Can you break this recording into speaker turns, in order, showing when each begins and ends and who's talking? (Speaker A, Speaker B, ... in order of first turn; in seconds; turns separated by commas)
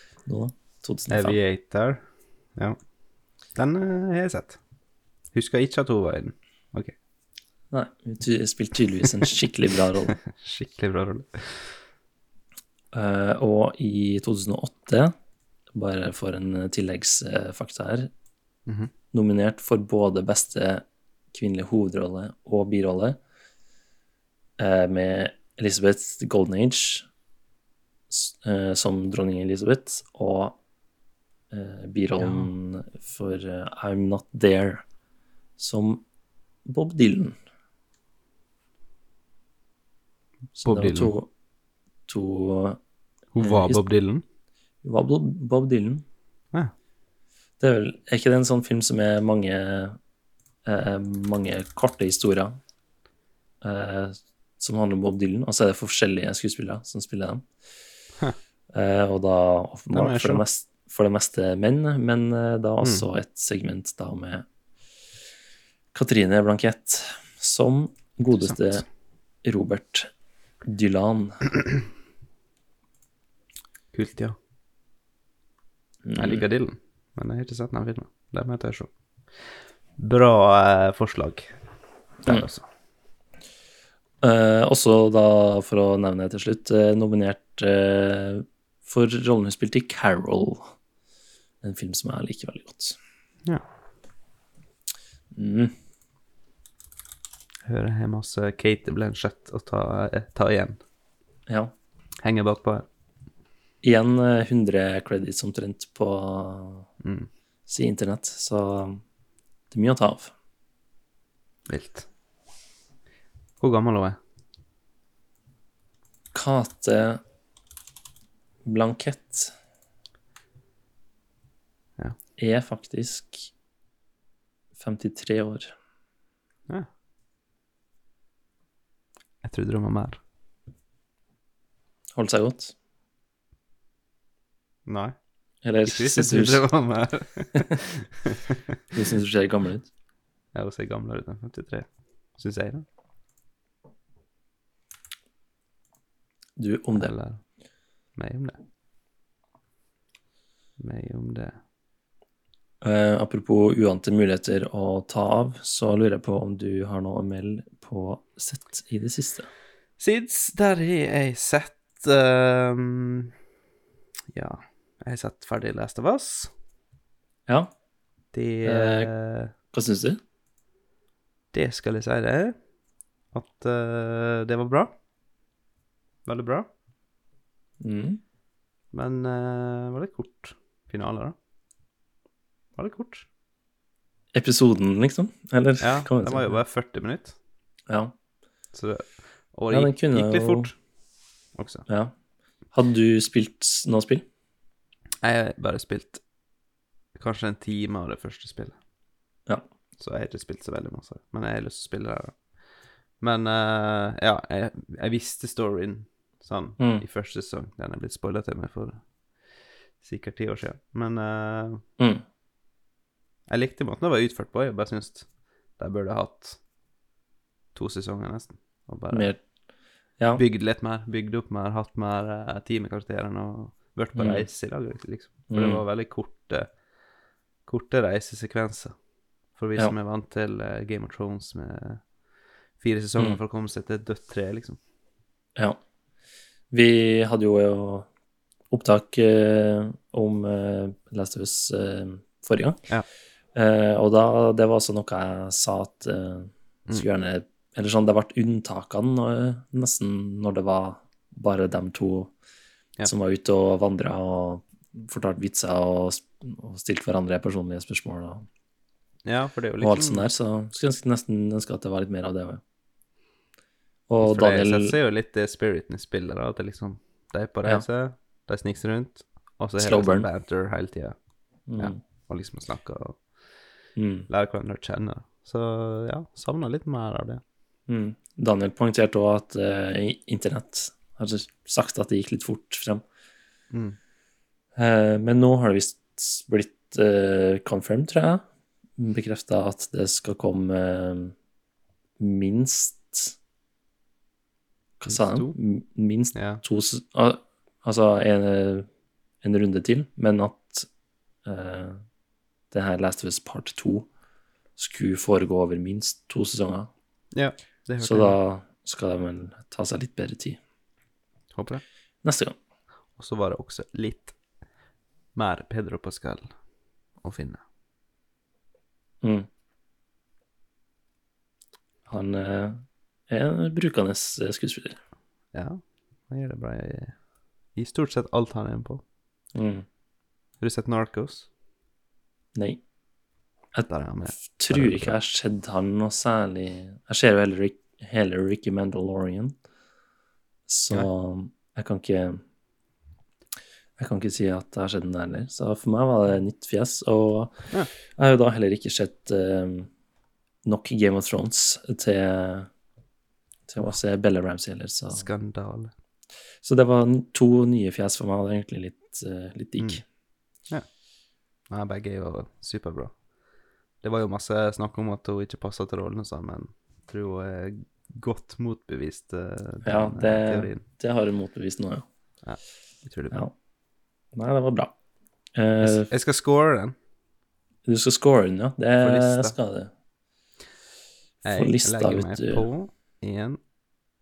Speaker A: 0.3-1.4, Speaker B: 1.1-2.0, Speaker B: 2.5-2.8, Speaker B: 3.5-4.6, Speaker B: 5.3-6.9, Speaker A: 7.7-10.2, Speaker B: 10.3-11.8, Speaker A: 12.9-15.1, Speaker A: 15.8-18.1, Speaker B: 18.7-18.9, Speaker A: 19.1-23.2, Speaker A: 24.6-27.1, Speaker A: 28.1-30.6, Speaker A: 31.5-34.8, Speaker B: 32.2-32.5, Speaker A: 35.6-36.0, Speaker A: 36.6-37.4, Speaker A: 40.6-41.3, Speaker B: 40.6-41.1, Speaker A: 42.1-42.8, Speaker B: 43.3-44.2, Speaker A: 43.4-43.9, Speaker A: 44.8-46.0, Speaker A: 47.6-50.0, Speaker A: 50.7-52.6, Speaker A: 53.6-57.5, Speaker A: 58.7-64.5, Speaker B: 59.9-60.4, Speaker A: 65.9-68.9, Speaker B: 68.3-68.8, Speaker A: 69.4-70.1, Speaker A: 70.7-71.4, Speaker B: 73.9-74.4, Speaker A: 76.0-76.5, Speaker B: 76.2-81.5, Speaker B: 82.2-82.7, Speaker A: 84.2-90.7, Speaker A: 91.6-93.0, Speaker A: 95.3-95.7, Speaker B: 97.7-100.8, Speaker A: 101.5-101.7, Speaker B: 102.2-102.9, Speaker A: 103.8-106.9, Speaker B: 107.0-107.3, Speaker A: 107.7-109.0, Speaker A: 109.7-110.3, Speaker B: 111.7-112.1, Speaker B: 113.6-114.2, Speaker A: 116.3-117.2, Speaker A: 118.7-119.5, Speaker A: 122.4-123.5, Speaker A: 124.8-125.7, Speaker B: 129.4-130.2, Speaker A: 132.2-132.7, Speaker B: 134.9-135.2, Speaker A: 135.6-136.7, Speaker B: 135.8-138.5, Speaker A: 138.9-139.9, Speaker B: 140.5-142.8, Speaker A: 146.6-147.1, Speaker B: 146.9-147.4, Speaker B: 148.2-148.6, Speaker B: 150.8-151.6, Speaker A: 152.8-159.5, Speaker B: 160.0-163.3, Speaker B: 164.3-166.5, Speaker B: 168.3-169.5, Speaker A: 168.7-169.1, Speaker A: 169.7-170.2, Speaker B: 171.5-172.6, Speaker B: 173.3-174.9, Speaker B: 176.2-176.7, Speaker A: 177.8-178.2, Speaker B: 178.9-181.3, Speaker B: 182.8-183.3, Speaker A: 184.3-186.6, Speaker B: 185.8-187.4, Speaker B: 188.7-190.8, Speaker A: 189.7-190.7, Speaker B: 191.5-191.9, Speaker A: 191.9-192.1, Speaker A: 192.7-194.2, Speaker B: 195.2-196.2, Speaker B: 197.2-198.8, Speaker B: 200.0-202.4, Speaker B: 203.2-209.0, Speaker A: 206.8-207.0, Speaker B: 210.0-211.8, Speaker B: 213.5-216.6, Speaker B: 217.8-219.3, Speaker A: 219.1-219.4, Speaker B: 220.4-226.7, Speaker A: 224.2-224.5, Speaker A: 225.5-225.8, Speaker B: 227.7-228.9, Speaker B: 229.6-232.0, Speaker B: 232.8-234.8, Speaker A: 236.7-238.1, Speaker A: 238.7-242.8, Speaker A: 243.6-252.3, Speaker A: 253.1-258.4, Speaker B: 259.2-260.3, Speaker A: 259.8-262.6, Speaker A: 264.1-265.0, Speaker B: 264.2-271.2, Speaker A: 269.8-270.3, Speaker A: 271.7-272.0, Speaker B: 271.8-273.4, Speaker A: 274.0-274.3, Speaker B: 274.3-277.4, Speaker A: 277.9-283.0, Speaker B: 283.7-284.0, Speaker A: 284.8-288.4, Speaker A: 289.0-291.3, Speaker A: 292.2-293.4, Speaker A: 295.0-298.9, Speaker B: 295.1-295.6, Speaker B: 296.4-296.6, Speaker A: 299.4-300.9, Speaker A: 301.4-302.0, Speaker A: 302.7-304.1, Speaker A: 304.8-306.9, Speaker B: 307.3-308.4, Speaker A: 308.0-310.6, Speaker B: 311.5-311.8, Speaker A: 312.2-312.6, Speaker B: 313.2-314.4, Speaker B: 315.4-316.5, Speaker B: 317.2-317.6, Speaker A: 322.1-325.0, Speaker B: 325.5-327.2, Speaker B: 327.7-329.0, Speaker A: 329.6-329.9, Speaker B: 330.6-331.5, Speaker A: 332.6-332.8, Speaker A: 333.7-339.6, Speaker B: 333.9-335.1, Speaker A: 340.7-342.4, Speaker A: 344.0-349.9, Speaker A: 350.6-352.7, Speaker A: 353.7-355.2, Speaker B: 355.1-355.9, Speaker A: 356.6-360.0, Speaker B: 361.7-363.2, Speaker B: 364.0-370.8, Speaker A: 369.8-372.1, Speaker B: 372.4-373.4, Speaker A: 374.3-374.9, Speaker A: 375.6-376.1, Speaker B: 375.8-377.0, Speaker A: 377.9-379.9, Speaker B: 379.0-379.6, Speaker B: 381.4-383.6, Speaker A: 381.4-382.7